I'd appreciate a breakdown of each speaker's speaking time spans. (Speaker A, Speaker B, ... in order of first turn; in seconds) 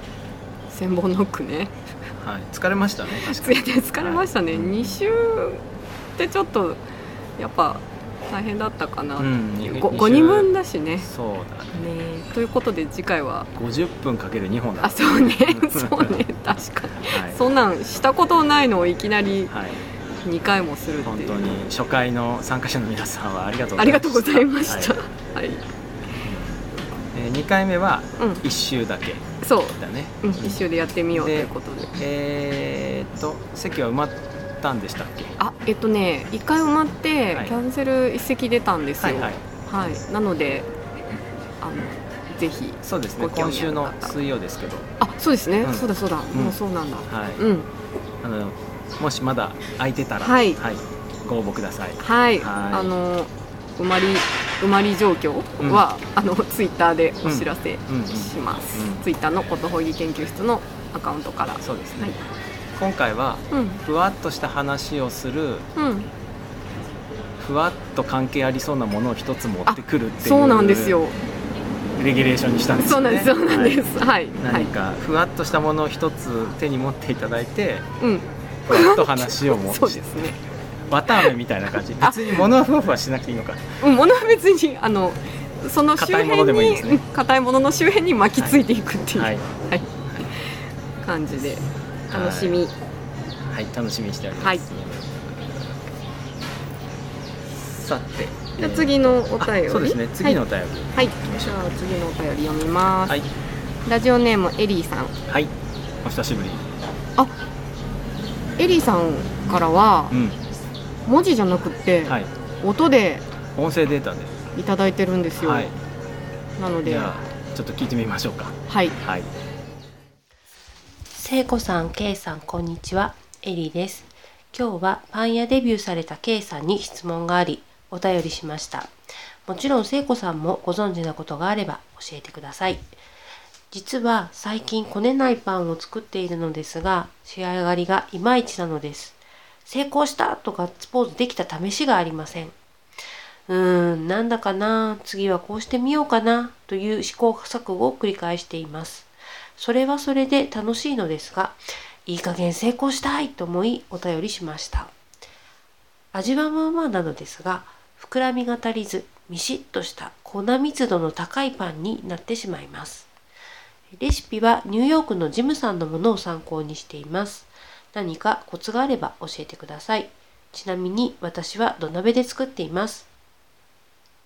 Speaker A: 0.7-1.7, 3.2-5.6, 6.2-6.8, 7.4-11.1, 11.7-13.5, 14.8-19.5, 20.2-21.4, 23.8-25.6, 28.2-28.4, 29.4-31.9, 35.4-40.7, 41.6-44.1, 45.0-47.7, 50.2-50.6, 52.0-62.2, 63.5-63.8, 65.8-66.1, 69.7-71.2, 72.8-74.7, 78.0-80.4, 82.0-82.4, 83.8-90.4, 91.0-92.7, 94.4-94.7, 98.6-100.4, 100.9-103.2, 103.8-105.1, 108.6-110.2, 111.0-113.2, 114.5-115.7, 116.6-117.2, 118.7-119.0
Speaker B: 2.2-5.0, 9.2-10.5, 11.0-11.7, 13.6-16.2, 17.1-17.4, 19.5-19.8, 21.0-24.9, 26.2-26.6, 27.1-29.2, 29.8-30.6, 31.1-35.3, 39.0-39.4, 42.8-44.9, 45.6-47.4, 48.2-52.9, 57.2-59.0, 61.6-62.1, 62.8-65.7, 67.4-71.0, 72.0-73.8, 74.4-77.8, 78.7-80.2, 80.9-83.6, 86.0-87.0, 89.1-89.4, 92.1-92.6, 93.5-95.2, 97.6-101.7, 106.0-106.7, 110.1-110.4, 113.5-114.3, 115.4-115.7, 116.8-119.3
Speaker C: 121.1-128.9, 129.4-132.9, 133.7-142.5, 143.5-154.9, 156.1-163.1, 164.0-173.1